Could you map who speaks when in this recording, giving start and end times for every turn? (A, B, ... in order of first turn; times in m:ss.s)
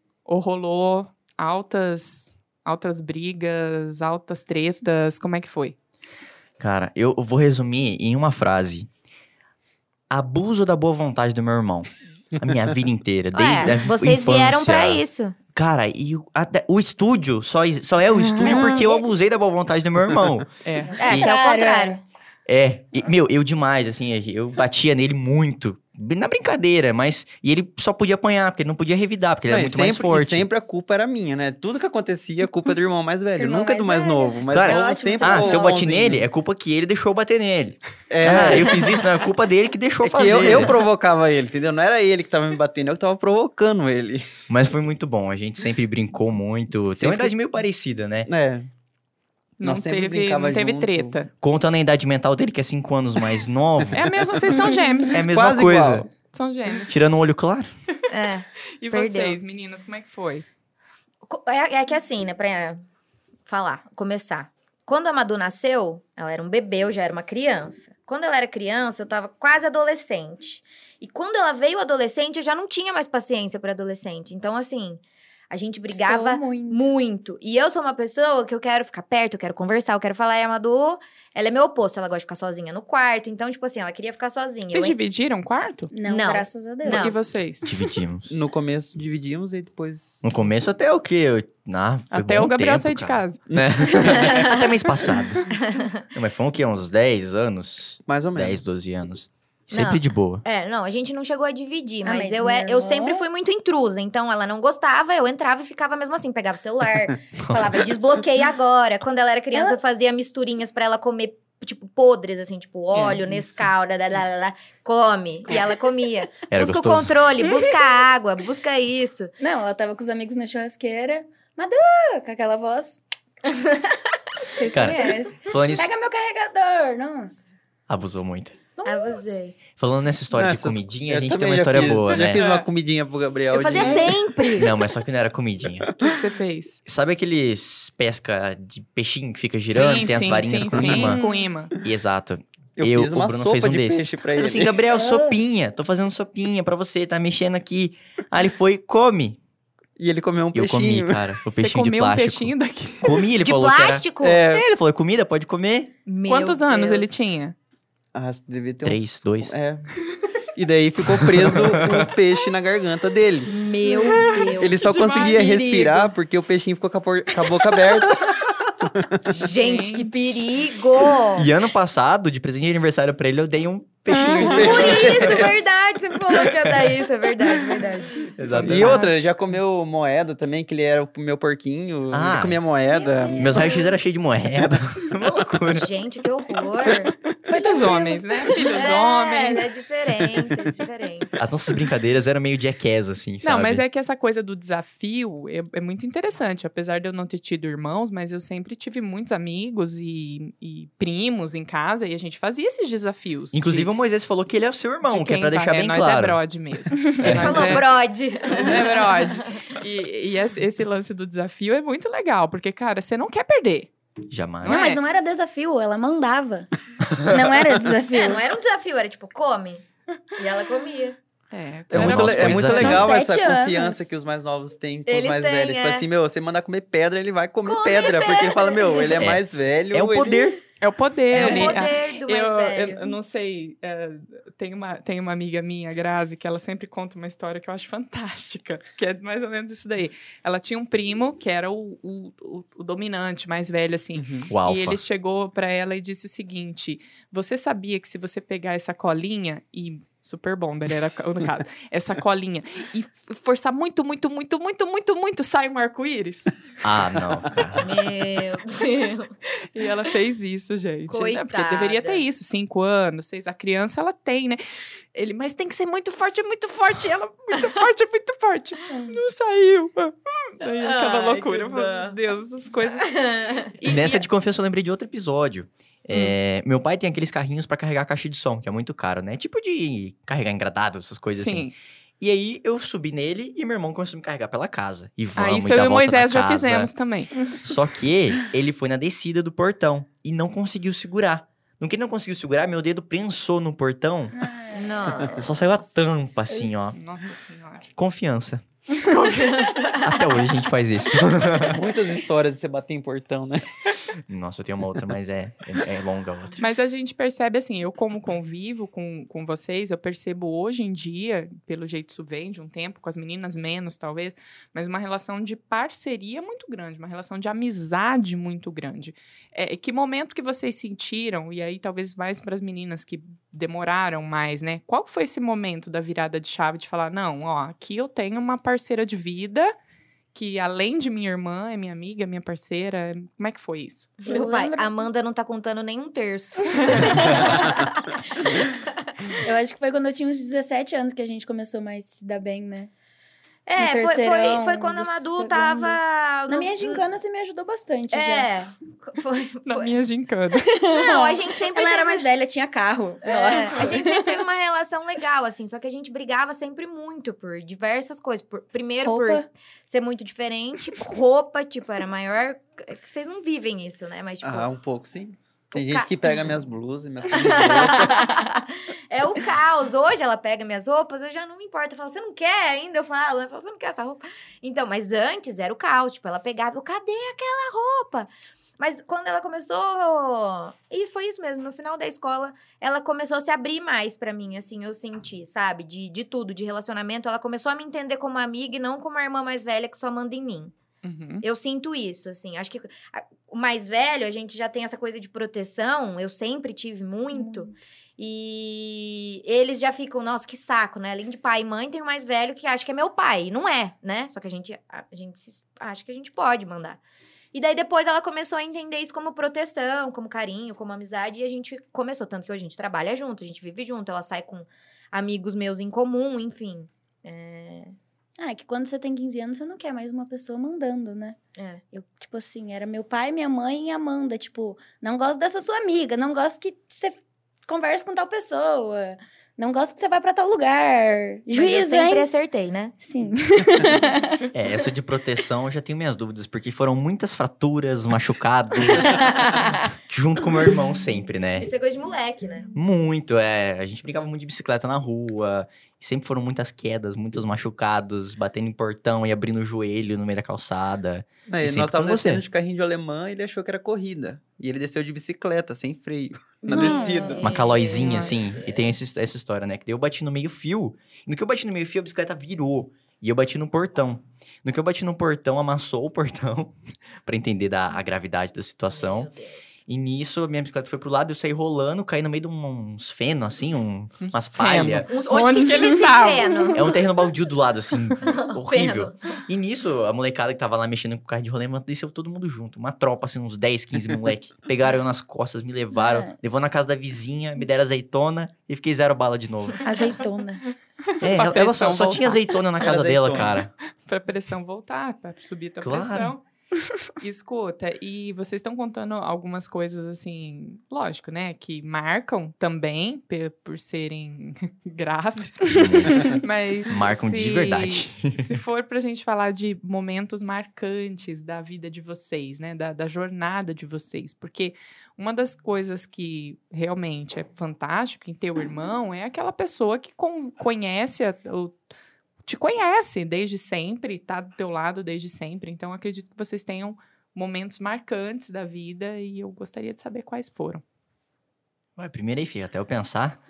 0:00.2-0:05.8 A
0:06.6-0:08.9 B
0:10.1-0:20.5 B
0:13.3-0:15.4 C
0:18.4-0:19.0 C
0:18.4-0:18.9 D
0:20.6-0:21.0 A
0:20.9-0:22.0 D
0:21.0-0:22.0 C
0:21.0-0:21.3 B
0:22.4-0:30.5 B
0:29.5-0:36.3 E
0:33.4-0:35.9 D
0:34.5-0:40.8 B
0:38.1-0:39.0 E
0:40.0-0:44.2 E
0:44.5-0:48.3 B
0:46.9-0:47.4 E
0:48.3-0:48.7 E
0:49.6-0:51.3 A
0:49.6-0:51.2 E
0:51.4-0:54.0 B
0:53.9-0:55.3 A
0:55.1-0:56.1 B
0:55.2-0:56.1 E
0:56.3-0:57.0 A
0:56.9-0:57.7 B
0:58.1-0:59.4 C
0:58.8-1:00.4 A
1:01.2-1:02.8 C
1:03.5-1:25.0 C
1:15.9-1:16.9 D
1:24.7-1:25.9 A
1:25.9-1:27.2 D
1:26.0-1:27.2 C
1:26.9-1:27.7 A
1:27.6-1:28.3 B
1:28.3-1:30.3 E
1:30.2-1:35.5 B
1:32.1-1:33.4 A
1:33.5-1:34.4 E
1:34.1-1:34.5 C
1:35.5-1:36.0 C
1:36.1-1:40.4 B
1:38.0-1:38.7 E
1:39.7-1:59.3 C
1:42.0-1:43.2 D
1:49.5-1:49.8 D
1:52.9-1:53.7 A
1:56.5-1:57.3 B
1:59.4-2:03.0 D
2:04.5-2:05.0 C
2:04.5-2:07.5 D
2:04.7-2:05.9 B
2:07.9-2:08.6 B
2:08.8-2:09.4 D
2:08.8-2:09.6 C
2:09.7-2:12.5 B
2:10.3-2:14.4 E
2:12.4-2:12.7 A
2:13.5-2:14.8 C
2:14.5-2:15.9 B
2:16.0-2:16.8 A
2:16.8-2:21.2 B
2:19.7-2:21.7 A
2:20.7-2:21.1 E
2:21.1-2:21.5 D
2:21.8-2:29.4 B
2:22.8-2:24.8 E
2:24.9-2:25.4 D
2:30.0-2:31.3 E
2:30.5-2:35.9 B
2:31.5-2:33.2 A
2:33.4-2:34.4 C
2:34.2-2:34.6 E
2:36.0-2:37.3 C
2:36.2-2:37.6 A
2:38.1-2:39.9 E
2:38.8-2:39.6 B
2:40.5-2:43.5 E
2:41.1-2:42.1 B
2:43.5-2:46.1 C
2:44.2-2:45.5 A
2:44.5-2:49.2 E
2:49.2-2:51.5 C
2:49.4-2:50.1 A
2:51.3-2:55.6 B
2:54.1-2:54.8 A
2:54.3-2:55.5 E
2:54.5-2:58.3 C
2:57.9-2:58.3 D
2:58.4-2:59.2 B
2:58.5-2:59.1 A
2:58.6-3:03.8 E
3:02.1-3:02.6 B
3:02.9-3:03.9 D
3:03.3-3:05.9 B
3:05.7-3:07.1 C
3:06.9-3:09.7 A
3:07.5-3:09.0 D
3:08.7-3:11.3 C
3:11.4-3:13.8 B
3:13.4-3:23.9 A
3:23.5-3:26.4 B
3:25.0-3:27.9 A
3:27.2-3:27.9 B
3:27.2-3:29.6 C
3:28.5-3:33.9 A
3:34.3-3:35.0 B
3:34.6-3:35.0 A
3:34.6-3:38.4 D
3:38.1-3:41.2 C
3:41.5-3:42.8 A
3:41.9-3:43.1 B
3:41.9-3:50.6 E
3:42.8-3:44.1 D
3:45.1-3:46.1 C
3:47.6-3:49.2 C
3:49.2-3:50.6 B
3:50.8-4:16.5 A
3:51.3-3:53.1 C
4:04.2-4:04.5 E
4:04.5-4:05.0 B
4:16.8-4:17.9 B
4:17.8-4:19.3 C
4:19.7-4:24.6 A
4:21.1-4:22.2 C
4:25.1-4:34.2 A
4:28.9-4:29.2 D
4:30.6-4:32.2 C
4:33.0-4:33.7 C
4:33.8-4:54.4 B
4:41.3-4:41.7 A
4:45.4-4:47.4 A
4:54.3-4:55.2 D
4:54.7-4:55.5 C
4:55.3-4:57.0 B
4:56.9-4:57.9 A
4:58.0-4:58.6 B
4:59.0-5:00.5 C
5:00.0-5:01.8 B
5:01.6-5:04.0 E
5:04.3-5:06.6 B
5:06.6-5:29.7 A
5:30.3-5:34.2 A
5:34.2-5:39.0 C
5:34.2-5:35.0 D
5:36.7-5:37.8 D
5:39.4-5:42.9 D
5:43.6-5:47.0 C
5:43.8-5:48.5 D
5:48.1-5:50.0 C
5:49.6-5:50.7 A
5:50.6-5:54.4 D
5:50.9-5:52.2 C
5:53.2-6:04.7 C
5:59.0-5:59.4 D
6:04.4-6:08.4 E
6:05.7-6:06.1 C
6:07.3-6:30.7 C
6:31.0-6:31.4 A
6:31.4-6:47.0 C
6:37.3-6:37.7 D
6:47.5-6:58.0 C
6:58.4-7:01.4 D
7:01.6-7:01.8 C
7:01.9-7:12.3 D
7:11.5-7:12.9 C
7:13.0-7:14.4 D
7:14.5-7:21.7 B
7:21.6-7:22.7 C
7:22.7-7:32.4 B
7:31.5-7:37.9 E
7:36.7-7:37.7 D
7:36.7-7:39.0 C
7:37.4-7:49.3 B
7:48.9-7:49.7 C
7:49.9-7:55.1 B
7:54.2-7:56.8 A
7:55.1-7:57.0 C
7:56.7-8:09.9 B
7:58.2-7:59.3 C
8:05.9-8:06.4 D
8:09.8-8:10.7 D
8:11.2-8:13.7 B
8:11.2-8:12.4 A
8:12.8-8:13.6 E
8:14.0-8:16.4 A
8:15.8-8:16.3 B
8:17.2-8:41.8 A
8:25.7-8:28.6 B
8:42.4-8:50.8 A
8:52.0-8:53.4 B